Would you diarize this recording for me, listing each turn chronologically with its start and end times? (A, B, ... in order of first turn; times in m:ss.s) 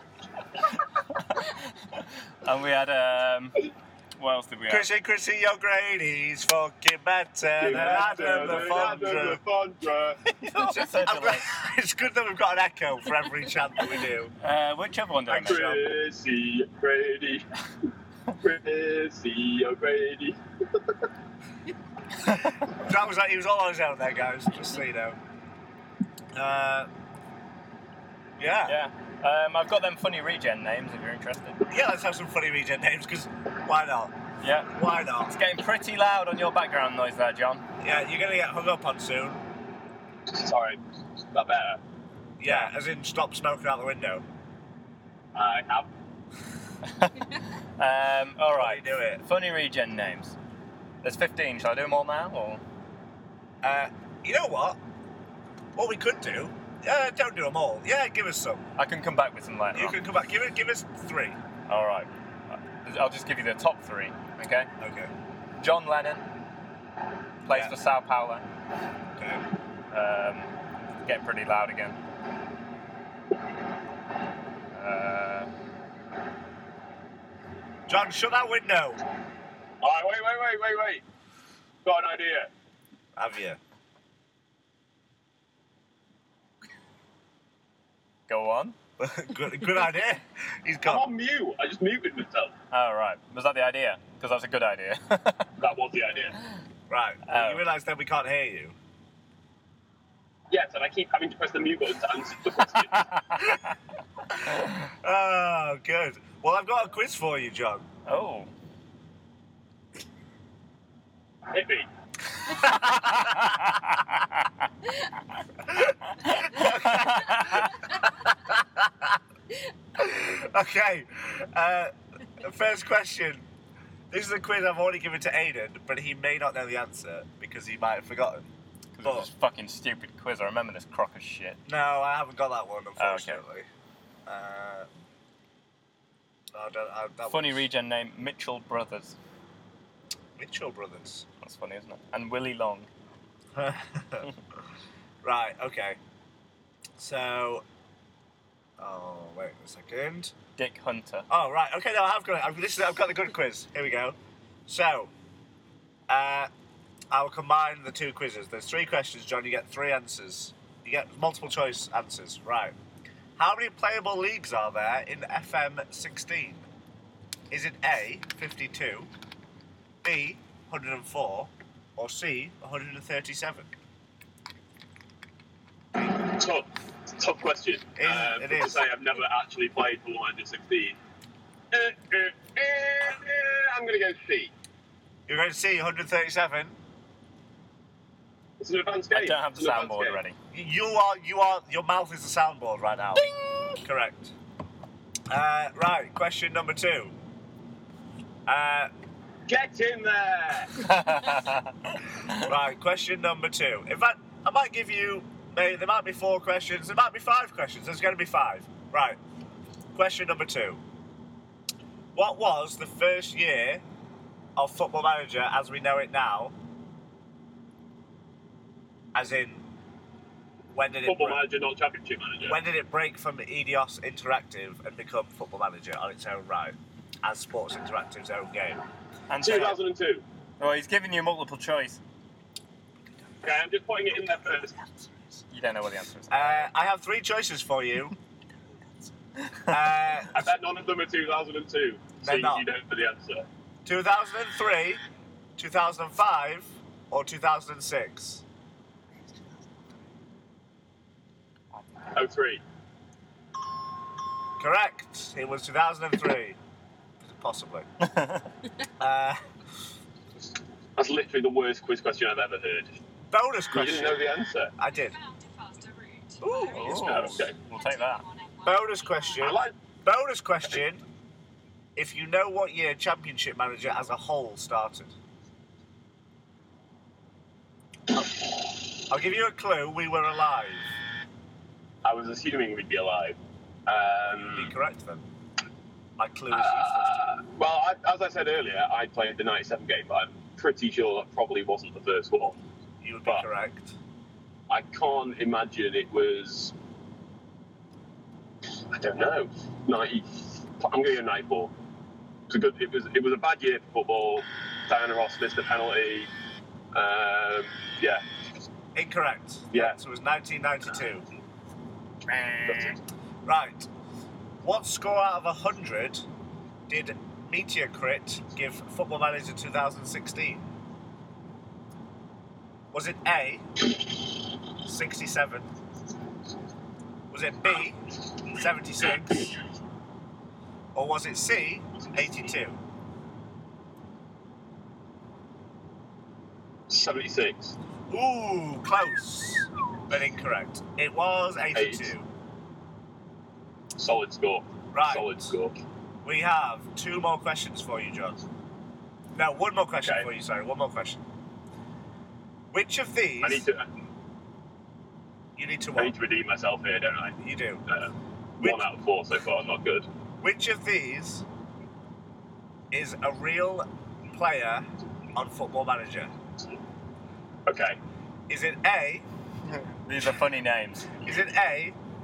0:00.7-0:03.6 A
0:04.2-0:04.9 A
0:04.7-0:09.4 B
0:07.6-0:10.2 C
0:07.7-0:09.1 A
0:10.3-0:11.5 A
0:10.6-0:14.3 B
0:14.4-0:15.8 A
0:15.3-0:15.8 B
0:15.4-0:17.5 C
0:18.4-0:20.4 C
0:22.3-0:25.2 B
0:26.4-0:26.9 B
0:28.4-0:28.8 B
0:28.7-0:31.6 A
0:31.7-0:34.2 B
0:34.4-0:34.7 A
0:34.7-0:35.3 B
0:35.2-0:37.7 A
0:37.8-0:39.4 B
0:40.3-0:40.8 C
0:41.3-0:41.8 C
0:42.4-0:44.2 B
0:42.4-0:42.7 A
0:45.4-0:45.9 C
0:46.8-0:50.4 A
0:48.5-0:49.2 B
0:51.0-0:52.6 A
0:53.6-0:54.8 B
0:55.8-0:58.6 B
0:58.8-1:00.0 A
0:59.7-1:01.4 B
1:01.7-1:04.7 A
1:04.8-1:05.1 B
1:05.6-1:06.2 A
1:07.4-1:08.4 A
1:09.2-1:09.4 B
1:09.9-1:10.5 A
1:11.0-1:12.0 A
1:14.7-1:15.5 A
1:17.9-1:19.0 B
1:19.8-1:21.0 C
1:21.8-1:22.5 C
1:23.2-1:23.6 B
1:28.3-1:28.8 A
1:29.0-1:31.1 B
1:30.8-1:32.5 C
1:32.7-1:35.5 A
1:35.6-1:36.4 C
1:36.9-1:38.8 B
1:37.3-1:37.6 A
1:40.5-1:43.1 C
1:43.0-1:43.6 A
1:44.3-1:47.8 B
1:48.1-1:48.5 A
1:51.5-1:51.9 C
1:52.4-1:54.5 A
1:52.5-1:53.6 B
1:55.6-1:59.2 B
1:56.2-1:57.8 A
2:00.0-2:03.4 B
2:04.1-2:08.4 B
2:09.0-2:11.6 A
2:11.7-2:13.7 B
2:13.0-2:13.4 A
2:14.3-2:14.9 B
2:16.5-2:17.6 B
2:17.3-2:19.2 A
2:20.4-2:21.3 B
2:21.4-2:22.9 A
2:23.6-2:24.3 B
2:25.2-2:26.0 B
2:27.0-2:27.6 B
2:28.8-2:30.3 B
2:30.6-2:31.3 A
2:31.3-2:34.2 B
2:34.7-2:35.1 B
2:36.1-2:36.5 B
2:37.1-2:42.8 B
2:43.4-2:46.7 B
2:47.5-2:49.1 B
2:50.0-2:53.7 B
2:56.1-3:01.0 C
2:58.0-2:58.9 B
3:01.7-3:04.5 C
3:05.3-3:06.8 B
3:08.6-3:10.2 C
3:09.1-3:10.4 A
3:10.5-3:14.3 B
3:15.3-3:17.1 B
3:18.5-3:18.9 B
3:19.5-3:20.8 C
3:20.8-3:21.7 A
3:22.4-3:29.2 B
3:29.9-3:30.8 B
3:32.1-3:33.8 B
3:34.6-3:36.6 B
3:39.2-3:39.6 B
3:40.7-3:41.4 B
3:41.1-3:42.6 C
3:42.4-3:48.8 B
3:49.3-3:49.8 A
3:49.4-3:50.2 C
3:50.6-3:52.0 A
3:53.4-3:54.8 C
3:54.8-3:55.4 B
3:55.5-3:56.7 A
3:56.3-3:58.2 B
3:59.4-3:59.8 A
3:59.7-4:00.4 B
4:00.3-4:03.4 C
4:02.2-4:02.7 B
4:03.8-4:05.0 B
4:05.6-4:08.4 B
4:12.1-4:12.6 C
4:14.6-4:16.6 B
4:17.2-4:17.9 B
4:18.0-4:18.5 A
4:19.0-4:19.4 B
4:21.0-4:23.0 C
4:23.3-4:24.2 B
4:23.7-4:24.7 C
4:24.8-4:25.2 B
4:24.9-4:29.5 D
4:26.4-4:27.2 B
4:26.7-4:28.2 A
4:26.9-4:27.6 C
4:28.6-4:31.0 B
4:29.4-4:29.7 C
4:32.0-4:35.1 B
4:39.1-4:41.0 B
4:42.0-4:44.7 C
4:44.3-4:45.2 B
4:46.2-4:47.2 B
4:46.5-4:52.6 C
4:53.0-4:54.0 B
4:54.7-4:56.7 C
4:58.9-5:01.7 C
5:02.5-5:06.3 C
5:06.9-5:08.2 C
5:09.0-5:11.2 B
5:09.7-5:10.0 C
5:12.3-5:13.0 A
5:12.7-5:13.0 C
5:13.5-5:13.9 B
5:14.6-5:16.3 B
5:16.9-5:20.6 B
5:22.9-5:23.9 B
5:24.8-5:25.7 B
5:27.3-5:29.6 B
5:30.9-5:32.8 B
5:36.9-5:37.8 C
5:38.1-5:42.3 B
5:41.8-5:42.1 C
5:44.0-5:45.8 C
5:44.9-5:45.5 B
5:46.2-5:48.4 B
5:49.4-5:51.2 B
5:52.7-5:53.7 B
5:53.4-5:53.8 C
5:55.6-5:56.2 B
5:56.0-5:57.4 C
5:57.4-5:57.8 B
5:57.9-6:00.1 C
6:00.4-6:01.4 B
6:02.9-6:06.3 B
6:07.7-6:08.0 C
6:08.5-6:09.3 B
6:09.7-6:11.1 A
6:11.2-6:12.0 B